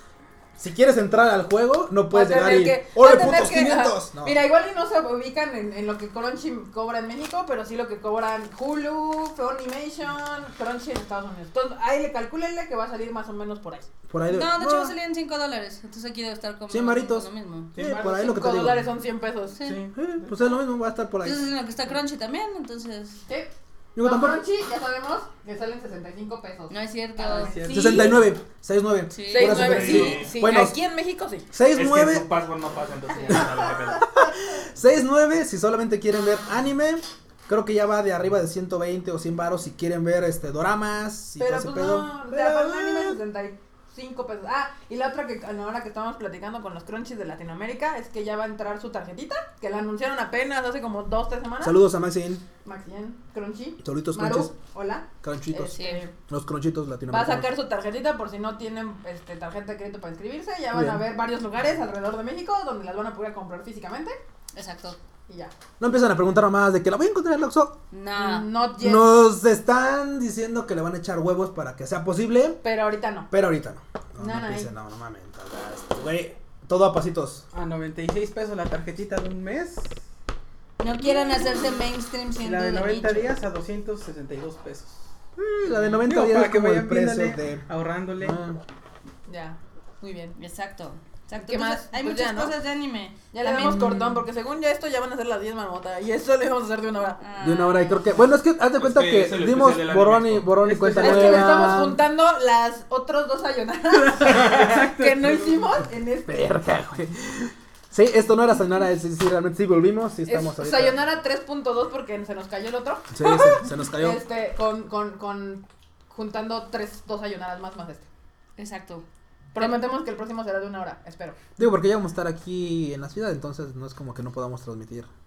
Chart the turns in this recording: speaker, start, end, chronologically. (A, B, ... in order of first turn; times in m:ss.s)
0:00.6-0:04.4 A
0:02.1-0:13.9 B
0:14.1-0:14.9 A
0:14.3-0:17.7 C
0:16.7-0:18.9 A
0:17.8-0:18.1 D
0:17.9-0:19.6 B
0:19.6-0:20.2 D
0:19.9-0:21.5 A
0:21.2-0:23.2 C
0:23.3-0:28.1 B
0:24.0-0:24.4 A
0:26.7-0:28.2 C
0:27.3-0:28.2 D
0:27.7-0:30.8 A
0:29.1-0:30.2 C
0:29.3-0:31.5 B
0:29.6-0:30.3 E
0:31.5-0:32.3 A
0:31.8-0:34.1 E
0:33.1-0:34.4 B
0:33.3-0:33.6 A
0:34.2-0:43.2 A
0:41.4-0:51.8 B
0:51.6-0:52.4 A
0:52.6-0:56.1 B
0:53.8-0:54.5 A
0:55.2-0:57.5 A
0:55.8-0:56.0 C
0:57.1-1:04.2 B
1:00.7-1:01.0 A
1:04.5-1:05.0 C
1:05.3-1:05.5 B
1:05.8-1:07.8 A
1:07.9-1:08.5 C
1:08.1-1:09.1 B
1:08.8-1:12.6 A
1:12.6-1:13.3 B
1:13.3-1:17.4 A
1:14.2-1:14.7 B
1:17.5-1:20.0 D
1:20.8-1:23.4 C
1:21.1-1:21.4 D
1:22.4-1:25.0 D
1:25.4-1:27.7 A
1:26.0-1:28.4 D
1:28.2-1:28.6 A
1:29.3-1:30.4 B
1:30.4-1:34.1 C
1:31.4-1:32.5 B
1:33.3-1:37.2 B
1:37.2-1:38.1 C
1:37.4-1:42.0 A
1:38.8-1:40.5 E
1:40.6-1:41.9 D
1:41.0-1:46.5 B
1:43.9-1:45.6 D
1:46.3-1:51.0 A
1:50.3-1:58.1 B
1:53.1-1:54.2 A
1:58.6-1:59.0 C
1:59.6-2:01.4 B
2:01.6-2:05.1 A